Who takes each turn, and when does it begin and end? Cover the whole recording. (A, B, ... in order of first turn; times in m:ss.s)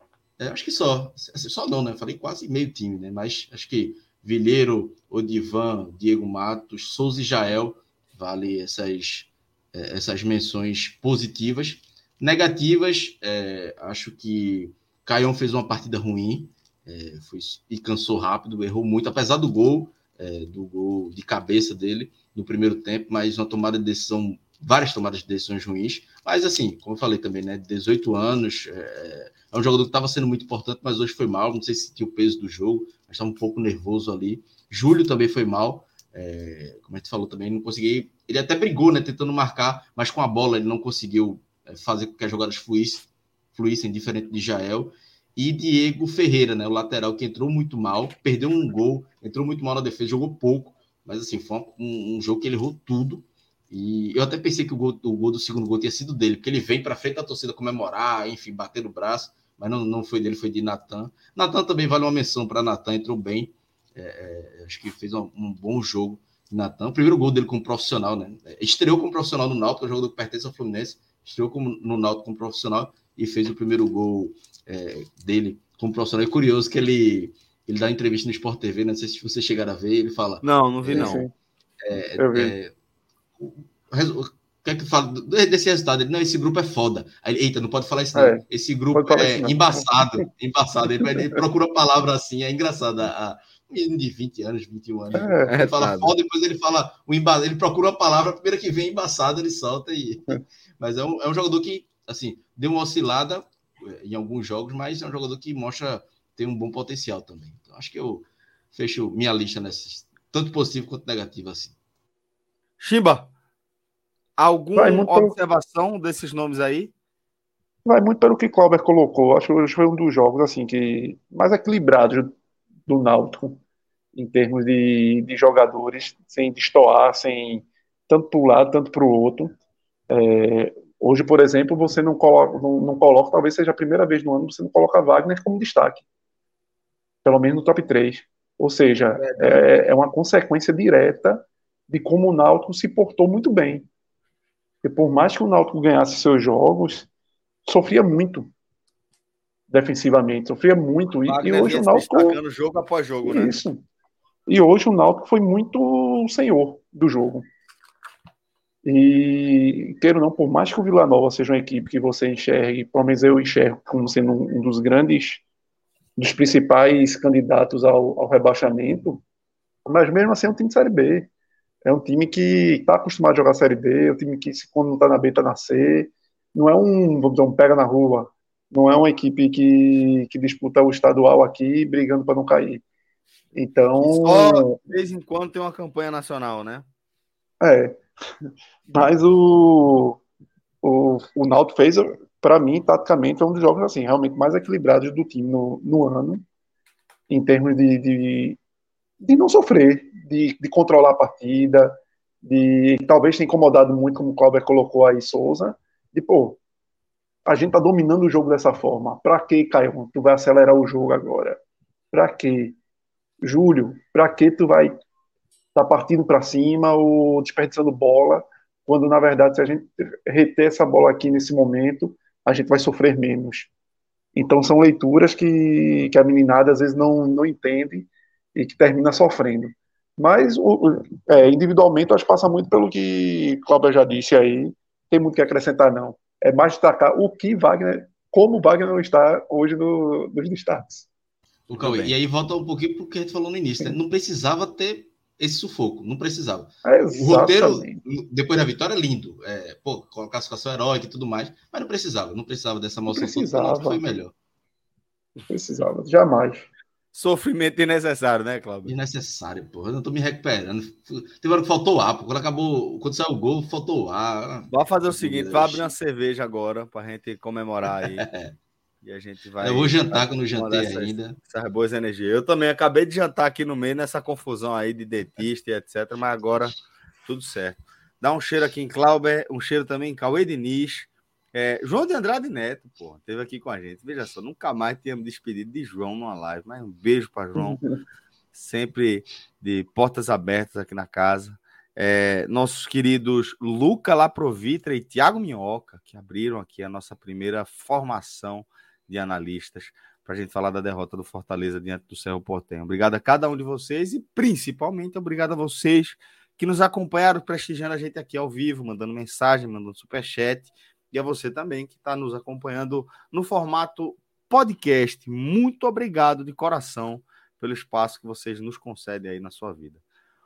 0:00.4-1:21.2 A
1:20.4-1:21.2 B
1:20.9-1:21.3 C
1:21.8-1:22.7 A
1:22.2-1:22.6 C
1:23.4-1:51.7 A
1:28.1-1:30.1 C
1:31.0-1:31.3 C
1:35.1-1:35.5 C
1:35.4-1:36.1 B
1:52.8-1:53.3 B
1:54.4-1:56.9 B
1:54.8-1:55.3 C
1:57.8-2:02.3 C
2:02.9-2:03.6 C
2:04.1-2:09.6 C
2:10.1-2:16.0 C
2:17.2-2:23.9 C
2:19.2-2:19.6 B
2:24.8-2:27.1 C
2:27.6-2:28.5 C
2:29.7-2:32.4 C
2:31.2-2:33.6 B
2:33.2-2:33.8 C
2:34.5-2:37.4 C
2:38.8-2:45.4 C
2:46.2-2:49.2 C
2:49.8-2:51.3 C
2:51.8-3:02.8 C
3:03.5-3:04.8 C
3:04.0-3:06.8 B
3:07.6-3:08.1 C
3:08.9-3:10.2 C
3:10.8-3:16.4 C
3:17.3-3:18.6 C
3:19.2-3:26.6 C
3:27.4-3:31.6 C
3:32.1-3:32.8 C
3:33.4-3:34.9 C
3:35.7-3:43.7 C
3:44.3-4:01.1 C
4:01.7-4:14.3 A
4:01.8-4:02.1 B
4:06.8-4:08.0 C
4:13.1-4:14.0 C
4:15.4-4:16.7 C
4:17.1-4:18.9 B
4:18.8-4:25.8 A
4:24.7-4:28.3 B
4:28.0-4:28.5 A
4:29.0-4:47.8 B
4:29.6-4:31.4 A
4:48.5-5:20.0 B